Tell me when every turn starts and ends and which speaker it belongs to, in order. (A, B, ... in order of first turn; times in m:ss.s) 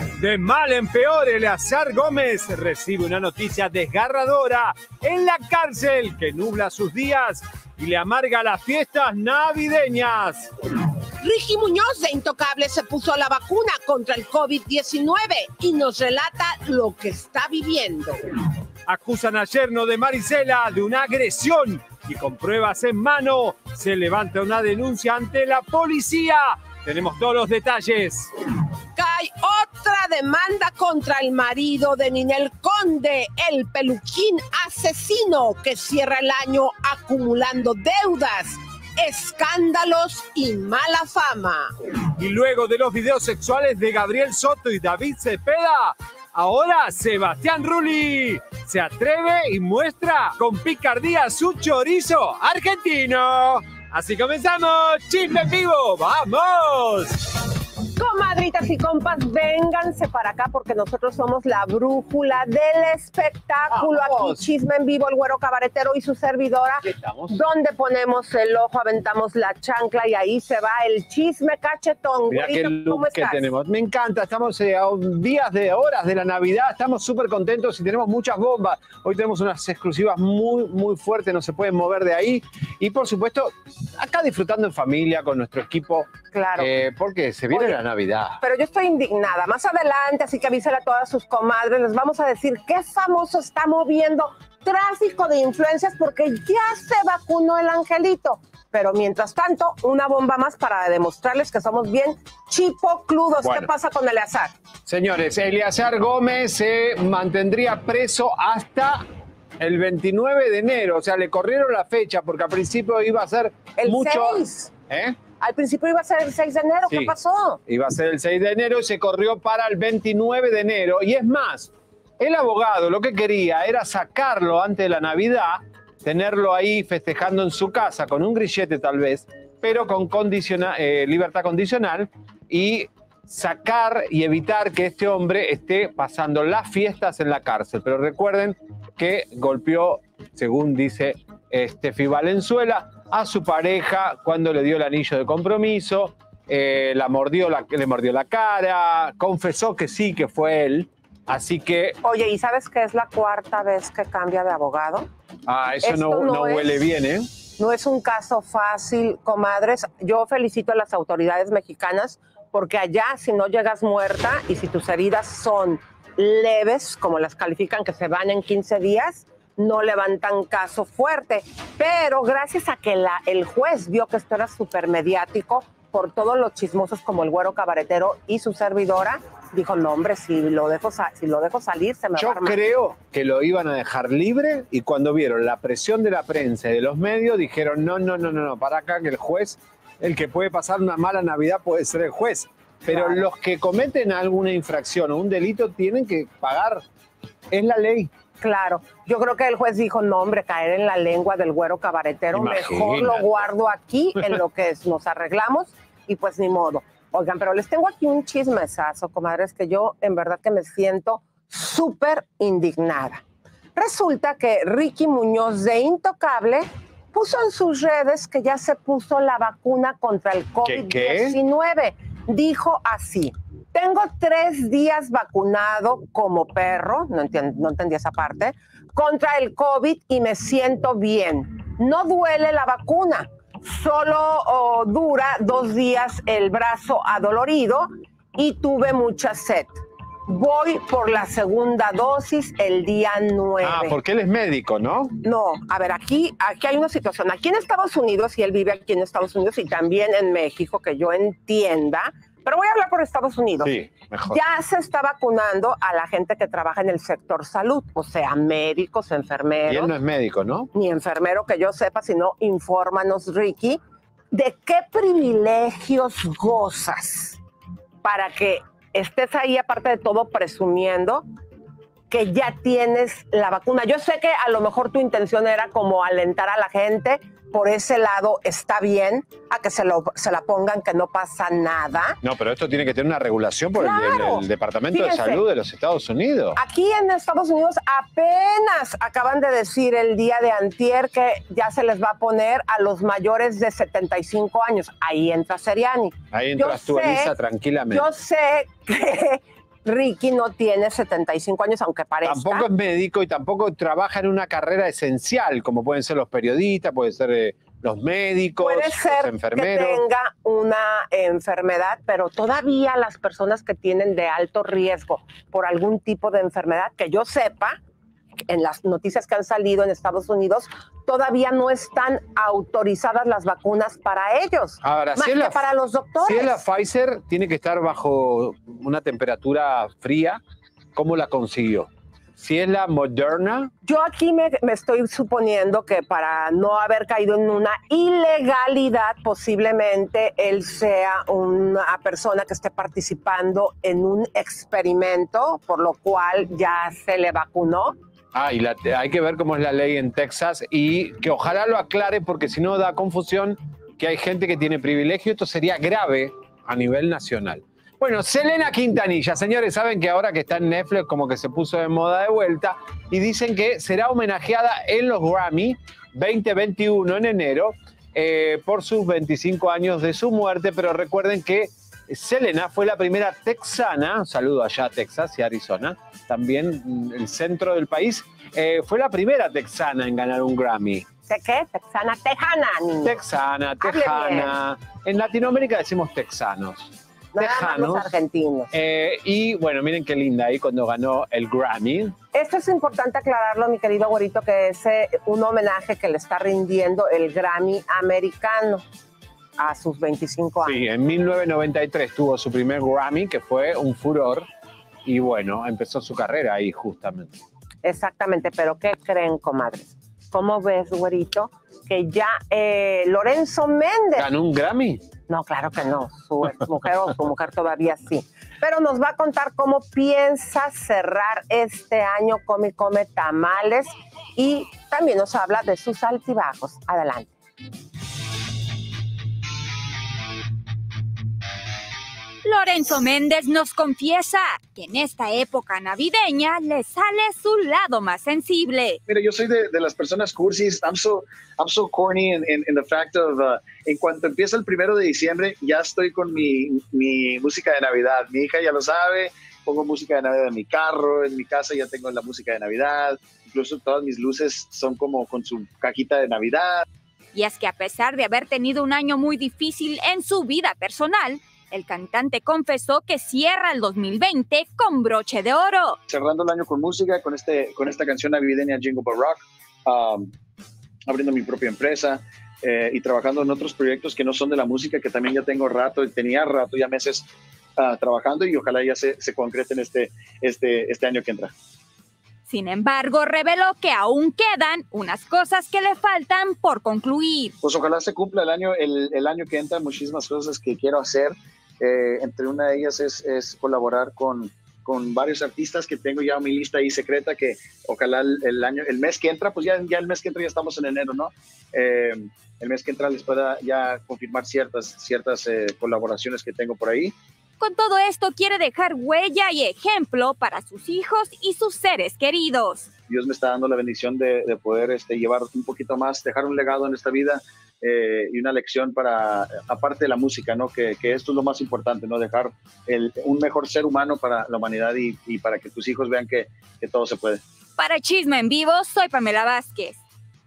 0:00.2-0:10.5 A
0:11.2-0:18.2 B
0:18.9-0:28.3 A
0:29.0-0:41.7 B
0:42.1-0:57.3 A
0:58.0-1:13.5 B
1:03.7-1:04.4 A
1:06.8-1:07.4 A
1:12.3-1:28.4 A
1:26.3-1:26.7 B
1:28.4-1:44.6 B
1:43.4-1:43.7 A
1:44.9-1:49.0 A
1:49.6-1:55.2 A
1:53.8-1:54.7 B
1:55.4-1:57.6 B
1:56.9-1:57.1 A
1:57.7-2:32.0 A
2:32.0-2:35.1 B
2:35.5-2:37.3 A
2:35.8-2:36.8 B
2:37.6-3:02.6 B
3:02.2-3:16.8 A
3:12.9-3:13.2 B
3:17.5-3:18.1 A
3:18.4-3:33.2 B
3:22.3-3:23.5 A
3:33.8-4:04.0 B
3:40.6-3:41.4 A
4:03.6-4:05.2 A
4:05.2-4:13.7 B
4:13.6-4:14.4 A
4:14.3-4:19.9 B
4:19.7-4:20.7 A
4:20.7-4:23.8 B
4:24.3-4:27.4 B
4:28.0-4:31.2 B
4:32.1-4:42.2 B
4:42.2-4:46.6 A
4:43.8-4:45.4 B
4:46.6-4:57.3 B
4:56.3-4:58.1 A
4:57.9-5:02.7 B
5:02.2-5:10.0 A
5:08.6-5:17.8 B
5:18.5-5:26.6 B
5:24.8-5:25.7 A
5:26.2-5:30.4 A
5:31.0-5:33.7 A
5:33.8-5:48.0 B
5:48.3-6:21.1 A
6:21.3-6:23.2 B
6:23.0-6:28.1 A
6:23.8-6:24.6 B
6:27.3-6:28.7 B
6:28.7-6:32.2 A
6:32.3-6:38.8 B
6:39.6-6:40.8 B
6:40.6-6:44.5 A
6:45.0-6:47.4 A
6:47.8-6:54.3 B
6:54.2-6:55.0 A
6:55.3-7:07.3 B
7:12.4-7:19.0 C
7:19.1-7:36.9 D
7:37.3-7:46.0 C
7:46.1-7:50.3 D
7:51.1-8:01.5 D
8:02.5-8:07.6 C
8:07.6-8:27.2 D
8:27.6-8:32.9 C
8:33.1-8:47.4 D
8:47.8-8:50.0 C